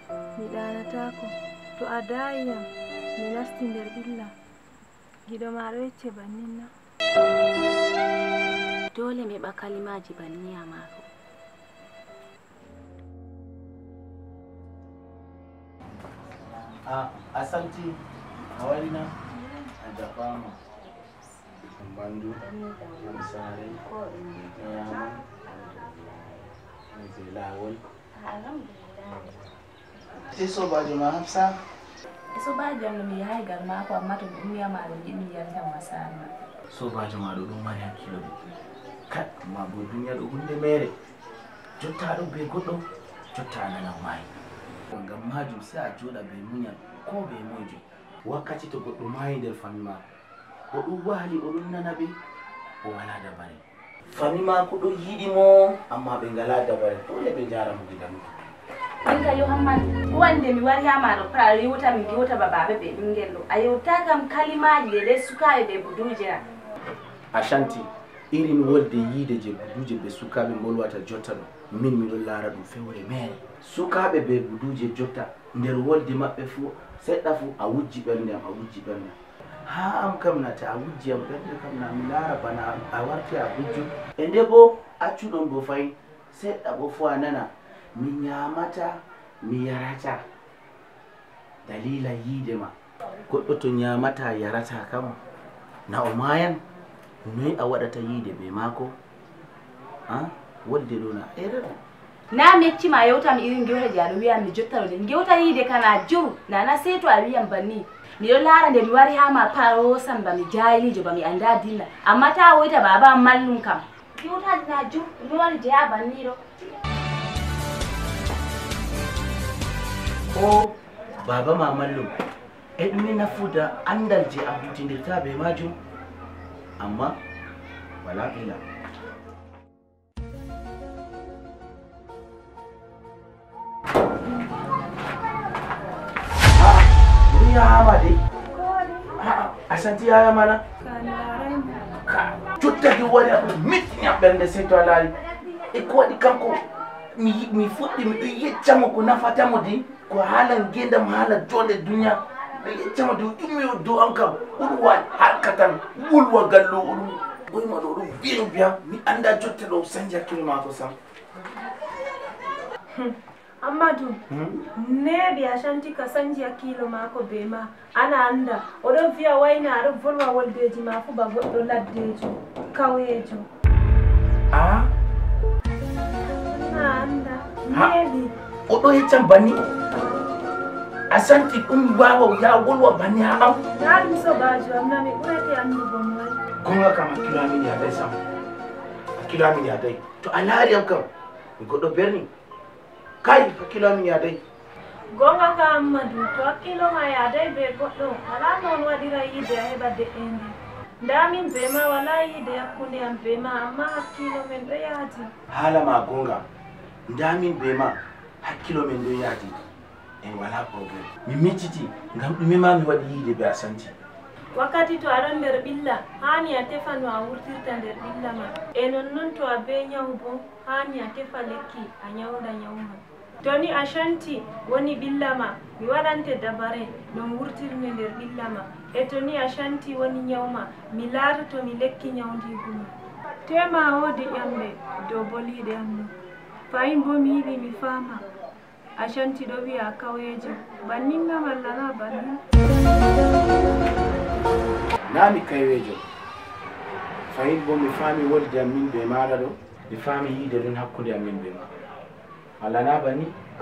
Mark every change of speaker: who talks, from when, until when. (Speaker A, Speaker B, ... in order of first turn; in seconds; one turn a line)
Speaker A: 0.3-4.3
Speaker A: 5.3-6.7
Speaker B: 8.9-11.1
Speaker C: 16.8-18.0
Speaker C: 18.5-19.1
Speaker C: 19.8-20.6
Speaker B: 20.9-21.7
Speaker C: 21.8-22.4
Speaker B: 22.4-26.5
Speaker C: 23.0-23.8
Speaker C: 24.6-25.2
Speaker C: 26.9-27.8
Speaker B: 28.1-29.6
Speaker C: 30.2-31.6
Speaker B: 32.3-36.3
Speaker C: 36.7-38.4
Speaker C: 39.1-40.9
Speaker C: 41.8-44.3
Speaker C: 44.9-50.0
Speaker C: 50.7-52.1
Speaker C: 52.8-58.3
Speaker B: 59.0-66.4
Speaker C: 67.3-90.2
Speaker C: 91.6-92.7
Speaker C: 93.3-95.2
Speaker C: 95.9-96.6
Speaker C: 97.2-99.0
Speaker C: 100.1-101.7
Speaker B: 102.3-116.4
Speaker C: 120.3-122.1
Speaker C: 122.8-125.8
Speaker C: 126.8-127.2
Speaker C: 128.0-128.6
Speaker C: 136.5-138.2
Speaker A: 138.5-139.1
Speaker C: 139.2-140.6
Speaker A: 140.8-141.8
Speaker C: 142.1-145.1
Speaker C: 145.7-160.9
Speaker A: 162.9-164.2
Speaker C: 164.3-164.7
Speaker A: 164.8-173.4
Speaker C: 174.5-174.9
Speaker A: 176.4-178.3
Speaker C: 178.7-179.6
Speaker C: 181.1-183.6
Speaker A: 183.7-186.4
Speaker C: 186.6-188.2
Speaker C: 189.2-191.1
Speaker C: 191.6-192.3
Speaker C: 193.2-194.4
Speaker A: 195.1-205.3
Speaker C: 205.5-206.4
Speaker C: 207.1-209.6
Speaker C: 210.2-213.9
Speaker A: 214.5-232.9
Speaker A: 233.4-236.1
Speaker A: 236.7-238.2
Speaker A: 239.0-242.4
Speaker C: 245.1-246.0
Speaker C: 247.3-251.7
Speaker C: 252.6-253.3